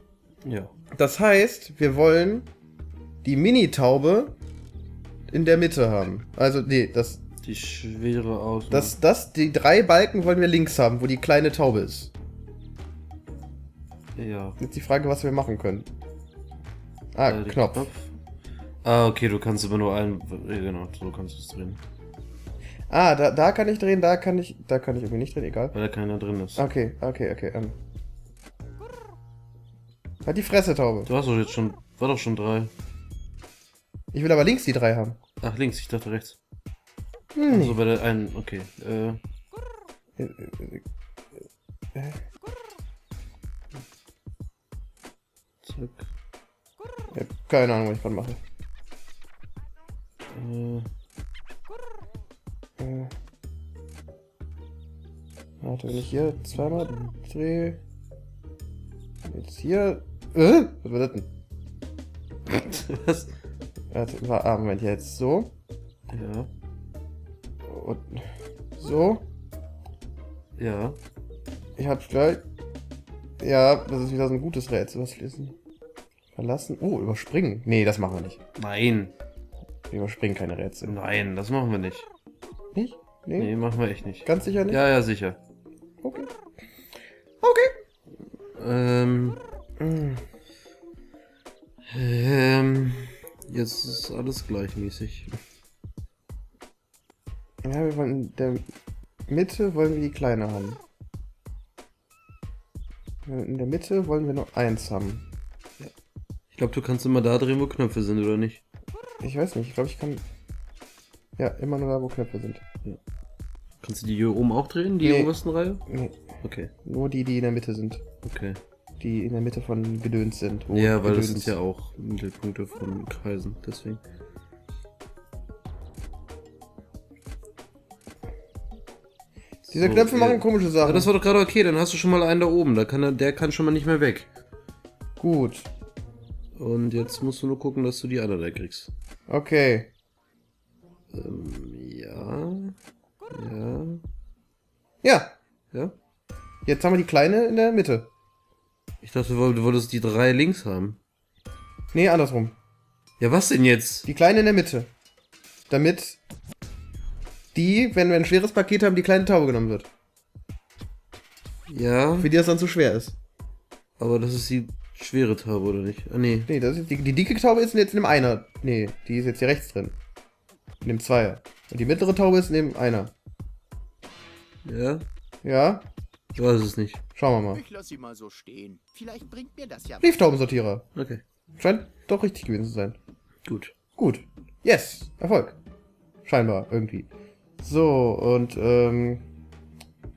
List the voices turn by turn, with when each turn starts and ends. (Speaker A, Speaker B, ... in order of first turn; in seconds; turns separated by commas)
Speaker A: 0.5-0.7, Speaker B: 0.9-2.5, Speaker B: 3.2-4.4, Speaker B: 5.3-7.2, Speaker A: 7.4-8.9, Speaker B: 8.7-12.1, Speaker A: 14.2-14.6, Speaker B: 14.6-15.9, Speaker B: 17.1-17.9, Speaker A: 17.3-18.1, Speaker A: 18.8-21.8, Speaker B: 22.9-25.8, Speaker A: 25.7-26.7, Speaker B: 26.6-27.8, Speaker B: 30.2-31.1, Speaker A: 31.1-32.7, Speaker B: 34.1-35.2, Speaker A: 35.4-36.4, Speaker B: 37.4-37.8, Speaker A: 37.5-39.2, Speaker B: 40.2-40.8, Speaker B: 42.0-42.2, Speaker A: 45.6-46.0, Speaker B: 47.1-48.4, Speaker A: 50.3-50.9, Speaker B: 52.8-53.1, Speaker B: 55.6-57.8, Speaker A: 55.9-57.1, Speaker B: 59.3-61.3, Speaker A: 62.5-63.3, Speaker B: 63.9-65.5, Speaker A: 66.1-66.5, Speaker B: 67.7-68.2, Speaker B: 68.8-69.3, Speaker A: 70.6-71.0, Speaker B: 71.8-72.4, Speaker B: 73.4-75.6, Speaker B: 76.3-78.4, Speaker A: 78.6-79.1, Speaker B: 79.9-81.0, Speaker A: 80.8-82.1, Speaker B: 82.7-83.6, Speaker A: 83.4-85.4, Speaker B: 84.2-84.8, Speaker B: 86.0-86.3, Speaker B: 87.4-87.7, Speaker A: 88.5-89.4, Speaker B: 89.8-90.2, Speaker A: 91.9-95.3, Speaker B: 97.6-98.7, Speaker B: 99.3-100.8, Speaker B: 103.3-105.3, Speaker A: 106.5-108.6, Speaker B: 109.2-110.2, Speaker B: 111.4-112.6, Speaker A: 113.8-115.8, Speaker B: 115.0-115.3, Speaker B: 115.9-116.3, Speaker A: 116.4-116.7, Speaker B: 116.8-118.0, Speaker A: 118.2-118.6, Speaker B: 119.0-121.6, Speaker A: 120.7-124.0, Speaker A: 129.7-134.3, Speaker B: 129.7-131.1, Speaker B: 135.2-135.7, Speaker A: 136.6-138.9, Speaker B: 139.3-139.9, Speaker A: 141.1-142.7, Speaker A: 143.3-144.0, Speaker B: 145.0-145.4, Speaker B: 146.7-148.1, Speaker A: 149.0-151.0, Speaker B: 151.9-152.6, Speaker A: 153.2-154.1, Speaker B: 154.1-154.9, Speaker B: 155.7-156.2, Speaker B: 157.5-159.9, Speaker A: 161.7-162.3, Speaker B: 162.2-163.2, Speaker A: 164.0-166.5, Speaker B: 166.5-170.0, Speaker B: 170.8-173.1, Speaker A: 174.6-175.1, Speaker B: 175.4-175.9, Speaker A: 176.3-177.0, Speaker B: 177.2-177.6, Speaker C: 177.5-180.2, Speaker B: 180.0-180.9, Speaker A: 180.9-181.2, Speaker B: 181.6-183.0, Speaker A: 183.4-183.8, Speaker B: 184.0-185.6, Speaker B: 186.2-187.1, Speaker B: 187.6-189.2